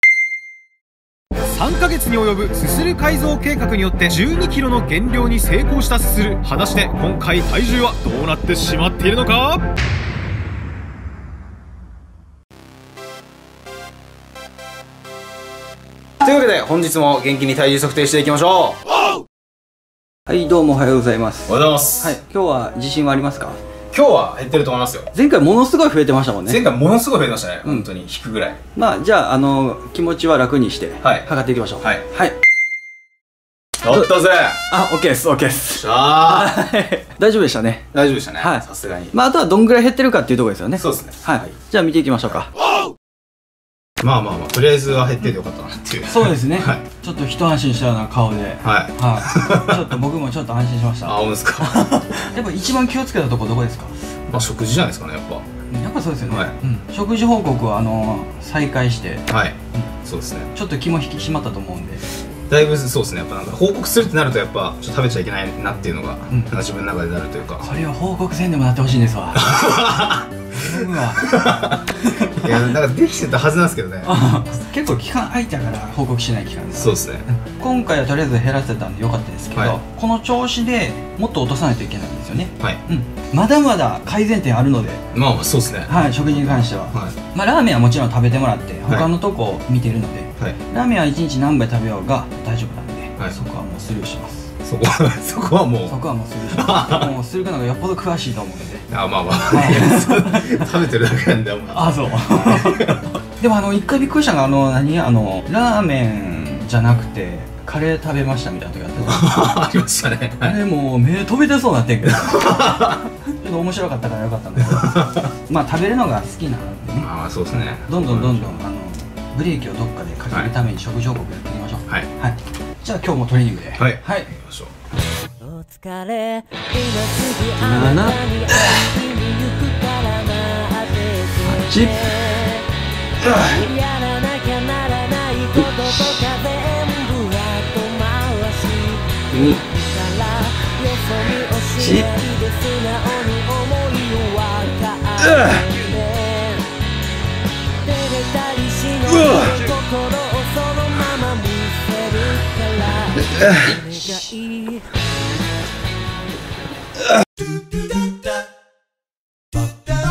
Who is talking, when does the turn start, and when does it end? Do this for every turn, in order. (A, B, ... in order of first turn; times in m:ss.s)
0:01.5-0:09.6 A
0:16.2-0:18.8 B
0:20.3-0:23.6 C
0:21.5-0:22.2 B
0:23.9-0:25.1 B
0:25.1-0:26.6 C
0:26.5-0:28.6 B
0:28.8-0:32.4 C
0:31.0-0:31.3 B
0:33.8-0:34.6 B
0:34.7-0:42.5 C
0:35.7-0:36.6 B
0:37.9-0:39.2 B
0:40.8-0:41.2 B
0:44.0-0:46.8 B
0:46.1-0:53.9 C
0:48.6-0:49.9 B
0:51.1-0:51.9 B
0:54.3-0:55.5 B
0:55.7-0:59.9 C
0:56.3-0:56.6 B
0:59.3-1:00.5 B
1:00.5-1:02.0 C
1:02.5-1:07.7 B
1:06.3-1:06.6 C
1:07.6-1:09.6 C
1:09.3-1:14.1 B
1:10.5-1:12.6 C
1:14.0-1:25.0 C
1:16.8-1:17.3 B
1:25.1-1:27.2 B
1:25.9-1:34.5 C
1:34.6-1:36.0 B
1:35.9-1:38.9 C
1:36.5-1:37.1 B
1:38.9-1:43.0 B
1:39.5-1:40.7 C
1:41.7-1:49.4 C
1:49.0-1:50.6 B
1:50.4-2:04.3 C
1:52.1-1:53.0 B
1:54.7-1:55.3 B
1:57.0-1:58.6 B
2:03.8-2:04.7 B
2:05.4-2:12.7 D
2:07.6-2:08.9 C
2:11.4-2:12.4 C
2:13.2-2:13.6 C
2:13.4-2:26.7 D
2:15.6-2:16.2 C
2:19.3-2:19.6 C
2:21.8-2:22.1 C
2:25.2-2:25.6 C
2:27.8-2:34.9 D
2:29.1-2:29.6 C
2:33.3-2:33.8 C